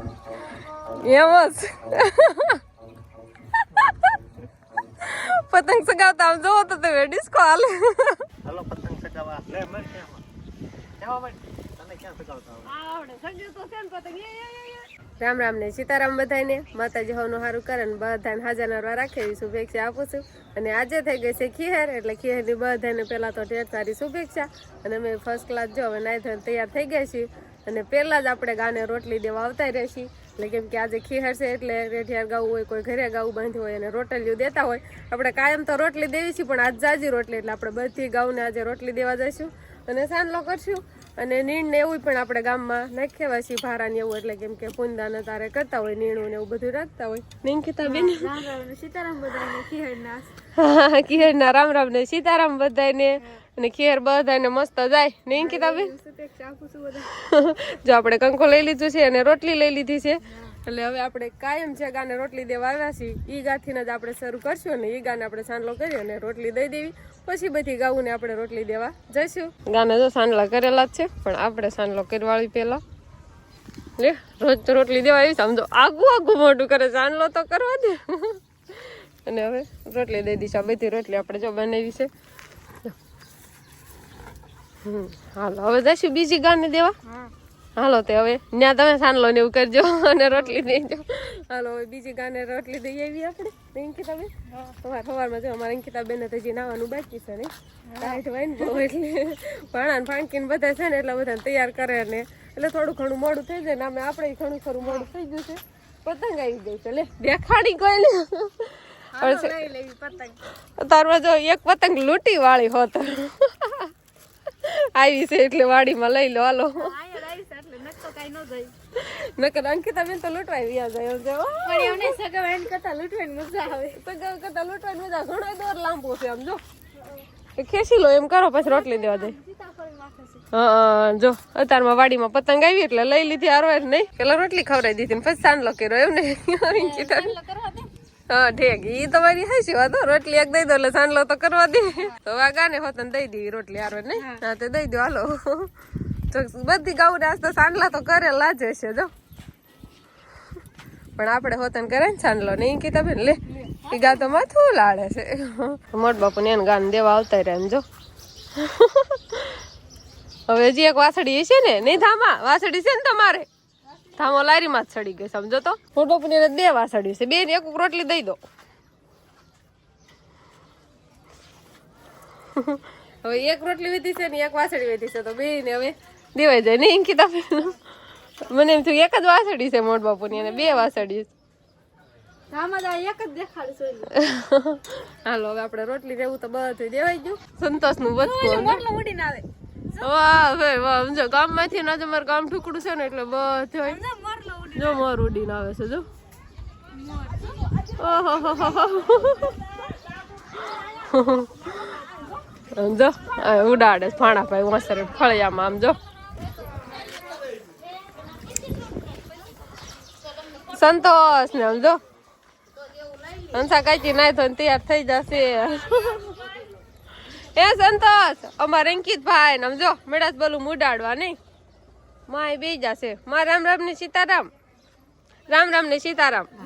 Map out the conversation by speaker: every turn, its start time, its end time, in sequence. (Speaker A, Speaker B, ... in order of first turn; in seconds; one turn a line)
Speaker A: 1.0-2.6
Speaker A: 3.7-4.1
Speaker A: 5.0-8.2
Speaker B: 8.4-10.2
Speaker B: 11.0-12.7
Speaker A: 12.6-48.4
Speaker C: 47.8-50.3
Speaker A: 50.5-55.9
Speaker C: 55.4-57.1
Speaker A: 57.2-72.8
Speaker A: 74.0-82.1
Speaker A: 84.8-86.9
Speaker A: 87.8-109.6
Speaker C: 97.9-98.2
Speaker C: 109.2-110.4
Speaker A: 110.8-113.9
Speaker A: 114.6-117.0
Speaker C: 116.8-118.7
Speaker A: 118.9-122.2
Speaker C: 121.7-124.0
Speaker A: 123.9-126.6
Speaker A: 127.5-129.3
Speaker C: 128.7-130.4
Speaker A: 130.5-137.3
Speaker C: 136.7-137.9
Speaker A: 138.3-145.7
Speaker A: 146.3-149.1
Speaker A: 151.2-157.8
Speaker A: 158.5-159.6
Speaker A: 160.5-163.5
Speaker A: 164.1-168.4
Speaker A: 172.6-177.8
Speaker A: 178.4-181.3
Speaker C: 180.4-180.7
Speaker C: 182.5-184.1
Speaker A: 184.1-188.8
Speaker C: 188.2-189.4
Speaker A: 190.0-194.0
Speaker C: 193.8-195.0
Speaker A: 194.7-196.0
Speaker A: 198.0-199.5
Speaker A: 200.9-201.9
Speaker A: 202.7-206.0
Speaker A: 210.6-212.0
Speaker A: 213.5-216.5
Speaker A: 217.3-221.4
Speaker A: 222.3-224.5
Speaker A: 225.5-226.5